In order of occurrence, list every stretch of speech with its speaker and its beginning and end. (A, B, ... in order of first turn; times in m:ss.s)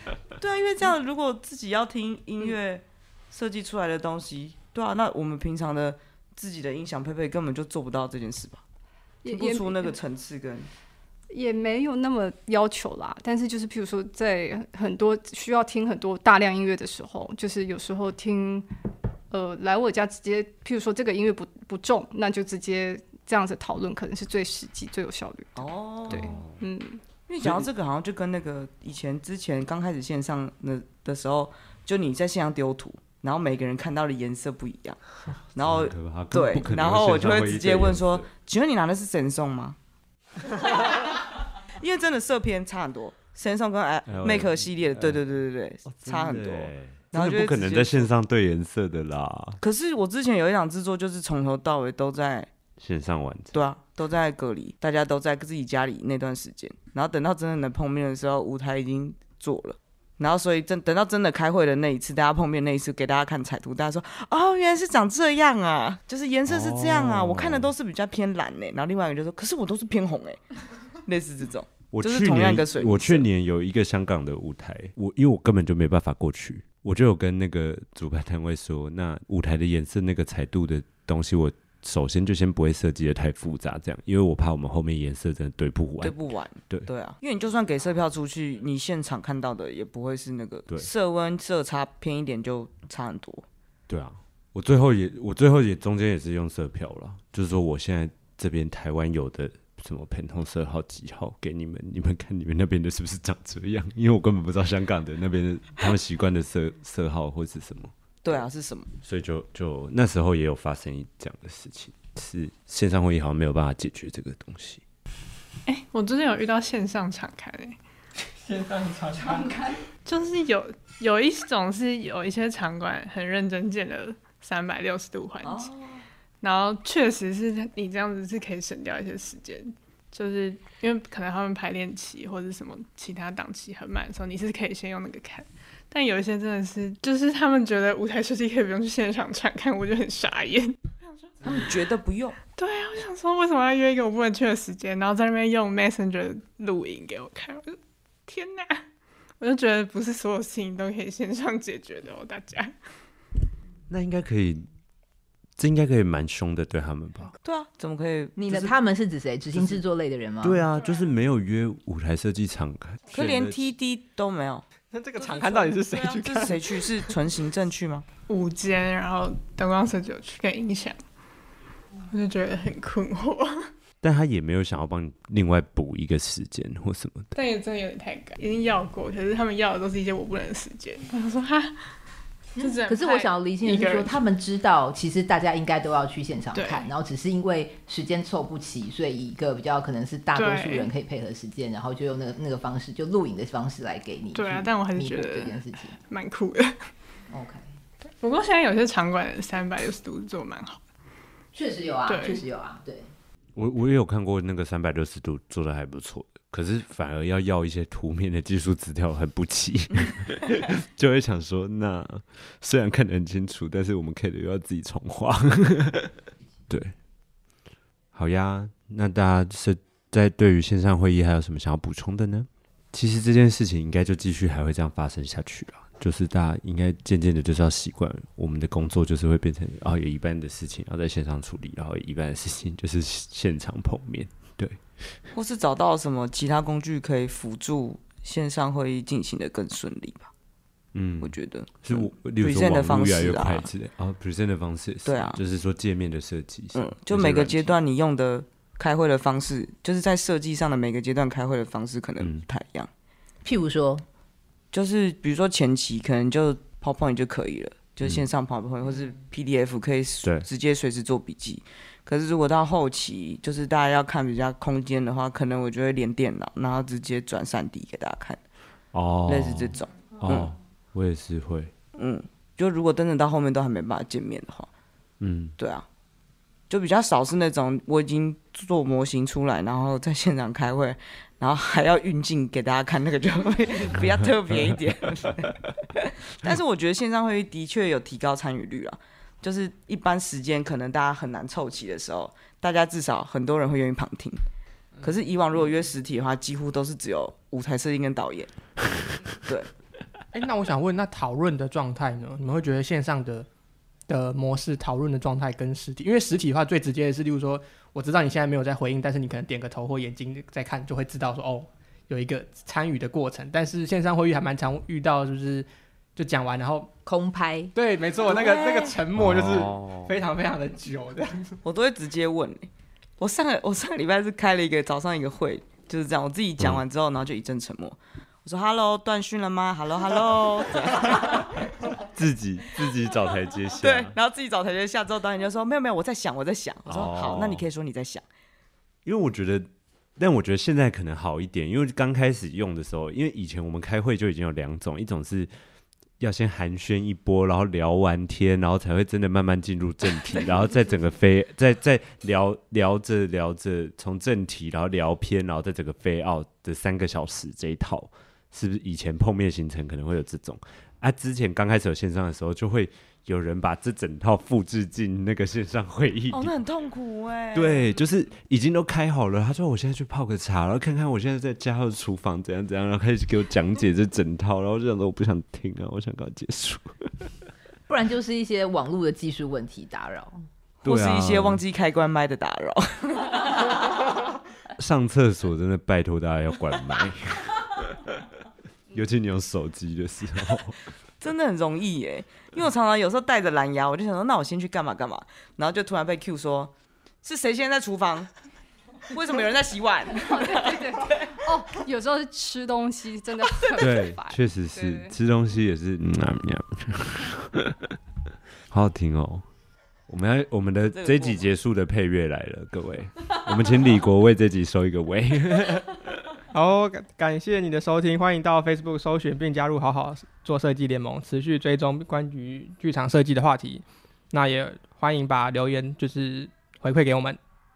0:00.4-0:08.6 A
0:09.2-0:09.9 B
0:09.2-0:10.7 A
0:11.3-0:18.7 B
0:19.3-0:27.0 B
0:25.6-0:26.4 A
0:26.1-0:26.6 C
0:27.3-0:39.8 A
0:27.4-0:27.7 C
0:35.6-0:38.3 C
0:40.5-0:41.2 A
0:41.8-0:48.1 A
0:44.1-0:45.2 C
0:45.8-0:49.6 C
0:49.6-0:52.5 A
0:52.8-0:53.6 C
0:53.5-1:10.4 A
1:06.5-1:07.7 C
1:11.0-1:13.3 A
1:11.8-1:26.9 C
1:26.0-1:33.4 A
1:33.9-1:47.9 C
1:48.2-1:48.9 A
1:49.0-1:54.8 C
1:55.6-1:57.8 D
1:58.4-1:59.6 E
2:00.0-2:05.7 D
2:05.4-2:06.0 A
2:06.4-2:21.3 D
2:21.4-2:22.4 A
2:22.6-2:28.8 D
2:29.4-2:32.7 D
2:33.9-2:34.7 C
2:35.6-2:37.3 C
2:37.4-2:38.7 A
2:38.4-2:40.6 F
2:40.4-2:43.7 C
2:43.1-2:44.6 A
2:44.9-2:47.1 E
2:45.2-2:48.0 A
2:48.3-2:51.0 D
2:52.0-2:53.7 D
2:54.0-2:57.3 C
2:57.3-3:01.9 D
3:02.6-3:16.0 F
3:02.6-3:04.2 D
3:06.5-3:06.9 D
3:10.3-3:10.9 D
3:14.3-3:16.9 D
3:17.3-3:17.6 F
3:18.1-3:20.8 D
3:21.5-3:23.1 F
3:22.1-3:22.4 D
3:23.6-3:36.2 C
3:36.7-3:36.9 C
3:38.1-3:55.1 C
3:55.3-4:00.3 A
4:00.9-4:07.7 C
4:01.2-4:03.7 A
4:05.0-4:05.4 A
4:06.7-4:12.9 A
4:12.2-4:12.4 C
4:13.4-4:14.0 F
4:14.7-4:28.4 A
4:28.9-4:31.7 C
4:29.3-4:30.5 A
4:32.0-4:34.7 A
4:35.2-4:35.5 C
4:35.6-4:35.8 A
4:36.7-4:54.4 A
4:55.0-4:58.5 A
4:59.4-4:59.7 A
5:00.3-5:03.5 E
5:04.1-5:16.9 E
5:17.0-5:17.7 F
5:17.7-5:21.6 E
5:18.2-5:19.0 A
5:19.2-5:20.1 C
5:21.6-5:31.6 A
5:32.0-5:34.1 C
5:33.8-5:38.2 A
5:36.9-5:37.6 C
5:39.0-5:45.5 C
5:46.2-6:06.5 C
6:06.3-6:08.0 A
6:07.5-6:17.3 C
6:17.9-6:20.4 F
6:20.8-6:23.8 A
6:20.8-6:21.6 C
6:24.8-6:28.2 C
6:28.9-6:30.8 C
6:31.2-6:36.7 A
6:37.2-6:38.3 A
6:39.1-6:41.2 A
6:40.1-6:45.1 B
6:43.8-6:48.0 C
6:48.7-6:49.4 C
6:50.1-6:56.0 C
6:50.9-6:51.4 A
6:56.5-7:07.4 E